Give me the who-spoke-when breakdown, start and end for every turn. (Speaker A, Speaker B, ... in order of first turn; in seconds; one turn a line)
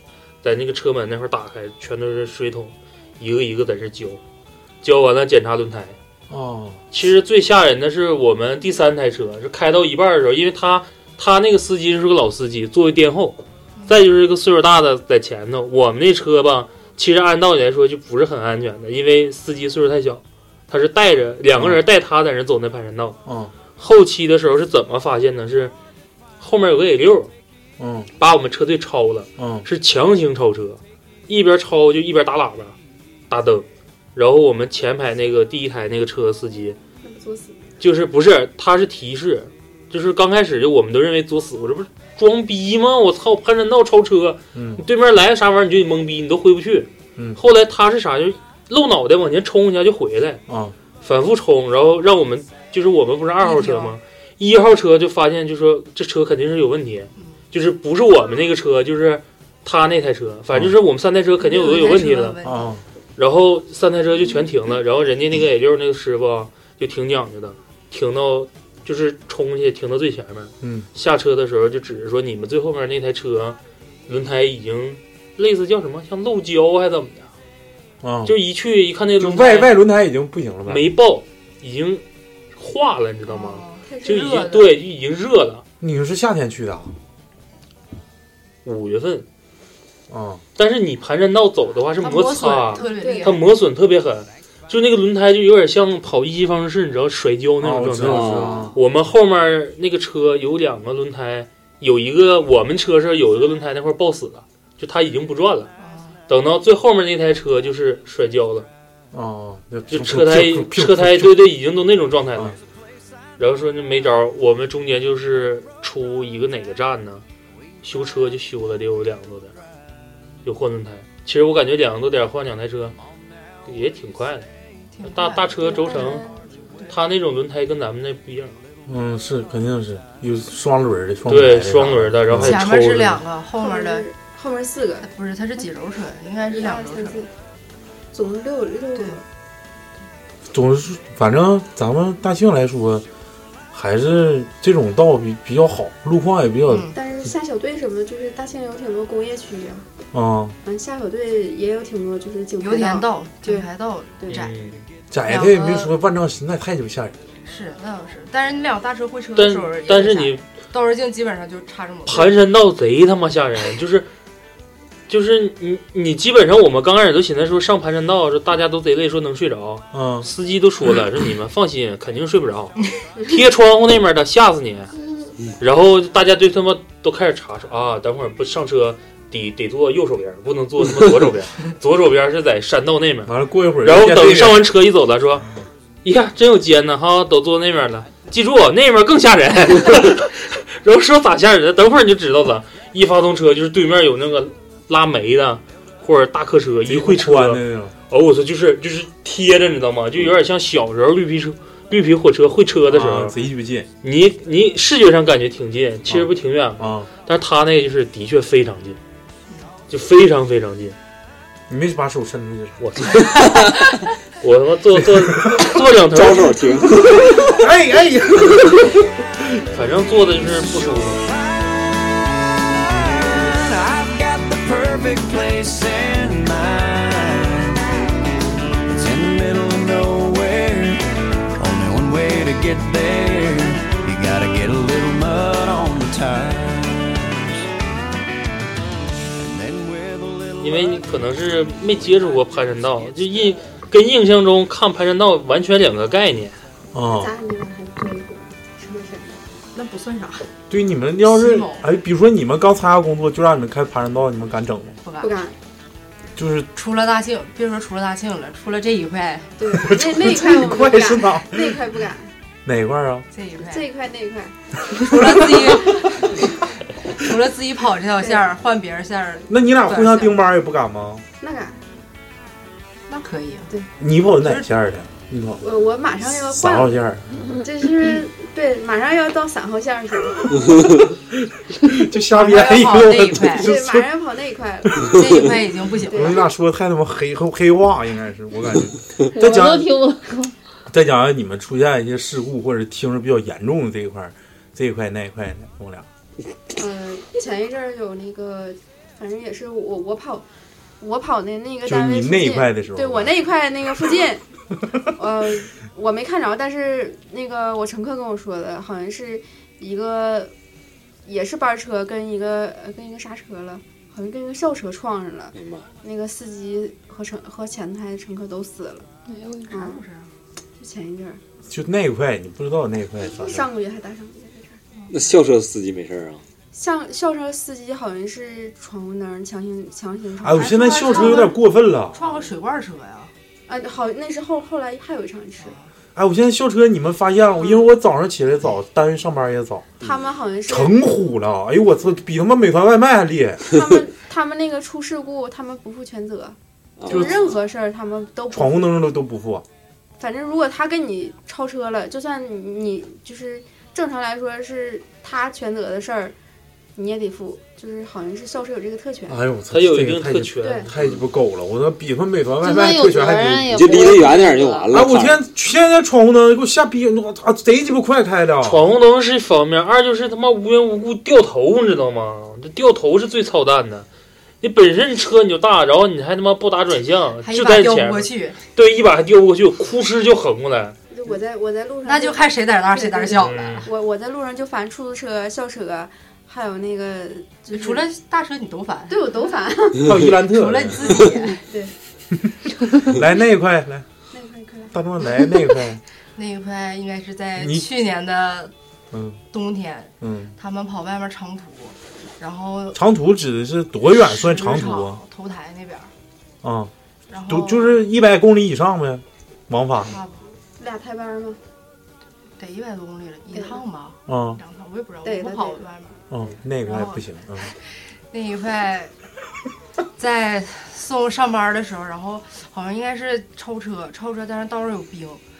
Speaker A: 0.4-4.2
Speaker A: 4.8-6.0
Speaker B: 6.3-6.8
Speaker A: 6.9-23.2
Speaker B: 21.5-21.8
Speaker B: 23.2-23.5
Speaker A: 23.8-25.7
Speaker A: 26.4-27.3
Speaker B: 27.8-28.1
Speaker A: 28.2-32.8
Speaker B: 29.4-29.6
Speaker A: 33.3-36.8
Speaker C: 37.0-37.6
Speaker A: 37.8-50.4
Speaker B: 44.5-44.8
Speaker B: 50.5-50.7
Speaker A: 51.0-62.4
Speaker D: 53.4-54.0
Speaker D: 61.4-62.8
Speaker B: 62.4-62.8
Speaker A: 63.2-77.3
Speaker B: 70.6-70.9
Speaker B: 78.0-78.3
Speaker A: 78.2-79.8
Speaker B: 79.2-80.9
Speaker A: 80.7-82.0
Speaker A: 82.5-85.6
Speaker D: 83.2-84.7
Speaker C: 83.9-84.4
Speaker B: 85.8-86.9
Speaker A: 88.6-89.2
Speaker B: 90.1-90.4
Speaker A: 90.5-105.7
Speaker D: 92.0-93.5
Speaker C: 92.7-93.4
Speaker B: 97.6-98.8
Speaker E: 98.0-98.7
Speaker D: 105.8-106.2
Speaker A: 106.3-108.7
Speaker B: 109.1-111.5
Speaker A: 109.9-112.6
Speaker A: 113.4-117.2
Speaker A: 117.8-119.5
Speaker A: 120.4-123.0
Speaker A: 123.7-124.5
Speaker D: 124.9-126.9
Speaker A: 125.0-126.2
Speaker C: 125.6-126.4
Speaker A: 126.9-128.6
Speaker B: 128.9-132.6
Speaker A: 131.3-133.2
Speaker D: 132.3-134.1
Speaker C: 133.6-135.1
Speaker D: 135.0-137.2
Speaker C: 136.5-137.3
Speaker C: 138.1-139.2
Speaker D: 138.9-139.2
Speaker B: 140.5-143.1
Speaker B: 143.7-146.9
Speaker D: 146.7-146.9
Speaker C: 146.9-149.9
Speaker B: 150.1-150.6
Speaker C: 150.6-153.7
Speaker D: 152.6-154.7
Speaker A: 154.3-154.8
Speaker B: 155.1-157.2
Speaker D: 155.2-155.9
Speaker D: 157.4-162.3
Speaker A: 159.3-160.4
Speaker A: 162.1-164.1
Speaker A: 165.1-174.9
Speaker B: 169.9-170.3
Speaker A: 175.6-185.5
Speaker B: 183.2-184.7
Speaker A: 186.0-203.3
Speaker B: 196.8-197.9
Speaker B: 202.9-203.9
Speaker A: 204.0-209.0
Speaker B: 206.1-207.1
Speaker A: 209.9-210.9
Speaker B: 211.7-213.0
Speaker A: 212.8-216.8
Speaker E: 213.4-213.7
Speaker B: 215.2-215.6
Speaker E: 216.1-217.6
Speaker B: 217.0-219.6
Speaker A: 219.7-221.2
Speaker F: 221.3-227.8
Speaker F: 228.8-237.6
Speaker F: 239.4-242.6
Speaker A: 240.6-246.6
Speaker F: 243.1-243.5
Speaker B: 246.9-247.3
Speaker C: 247.1-249.4
Speaker D: 249.7-250.5
Speaker B: 250.7-255.0
Speaker D: 251.2-251.8
Speaker D: 255.0-255.4
Speaker C: 255.2-255.6
Speaker B: 256.4-256.7
Speaker D: 256.8-259.6
Speaker C: 259.6-262.3
Speaker B: 259.7-261.8
Speaker B: 262.6-263.2
Speaker D: 263.3-263.9
Speaker C: 263.6-264.6
Speaker D: 265.0-266.5
Speaker B: 265.1-265.6
Speaker D: 267.2-270.4
Speaker B: 269.5-271.2
Speaker C: 271.4-271.8
Speaker D: 273.1-273.7
Speaker B: 274.0-275.6
Speaker D: 274.4-274.6
Speaker C: 275.6-276.9
Speaker B: 276.3-277.6
Speaker C: 277.5-280.8
Speaker B: 281.2-284.1
Speaker D: 282.3-283.7
Speaker C: 283.6-285.5
Speaker D: 285.1-286.4
Speaker C: 286.0-286.4
Speaker B: 286.1-289.9
Speaker G: 289.4-290.5
Speaker B: 290.9-296.1
Speaker C: 296.8-300.4
Speaker C: 301.0-304.4
Speaker B: 301.8-303.4
Speaker C: 305.1-310.5
Speaker C: 311.2-319.1
Speaker E: 315.5-315.9
Speaker G: 319.3-319.7
Speaker C: 319.7-319.9
Speaker D: 319.7-320.3
Speaker C: 320.8-321.4
Speaker B: 321.7-323.6
Speaker C: 323.3-324.8
Speaker E: 325.1-326.4
Speaker C: 326.7-331.5
Speaker B: 330.4-332.2
Speaker D: 330.5-331.6
Speaker D: 332.1-333.3
Speaker C: 333.7-335.8
Speaker D: 335.6-335.9
Speaker B: 336.1-339.9
Speaker C: 340.0-340.9
Speaker B: 340.7-343.7
Speaker C: 343.7-348.9
Speaker E: 347.0-347.5
Speaker B: 347.1-347.4
Speaker B: 348.5-349.6
Speaker C: 350.2-356.4
Speaker C: 356.9-359.4
Speaker B: 359.3-363.9
Speaker A: 359.7-360.9
Speaker C: 360.6-360.9
Speaker G: 362.6-364.9
Speaker E: 363.7-365.4
Speaker B: 364.9-368.8
Speaker A: 368.6-374.1
Speaker A: 374.6-381.0
Speaker D: 377.4-378.6
Speaker C: 381.1-388.0
Speaker D: 382.1-383.9
Speaker A: 383.4-383.9
Speaker D: 387.7-389.2
Speaker C: 389.1-390.2
Speaker B: 390.0-391.2
Speaker D: 390.4-391.6
Speaker C: 391.6-391.9
Speaker B: 393.0-394.1
Speaker C: 394.3-395.0
Speaker B: 394.9-396.0
Speaker D: 396.4-398.7
Speaker B: 397.6-397.9
Speaker B: 399.1-399.4
Speaker D: 399.5-403.0
Speaker B: 400.2-400.5
Speaker B: 402.9-405.2
Speaker D: 404.1-406.1
Speaker B: 406.6-406.9
Speaker D: 407.3-408.0
Speaker B: 407.5-410.1
Speaker D: 410.0-410.4
Speaker C: 410.8-411.6
Speaker D: 412.6-416.2
Speaker C: 413.5-413.8
Speaker B: 414.3-414.6
Speaker C: 415.2-415.8
Speaker B: 416.3-417.7
Speaker D: 416.8-417.8
Speaker D: 418.3-419.1
Speaker D: 420.2-425.4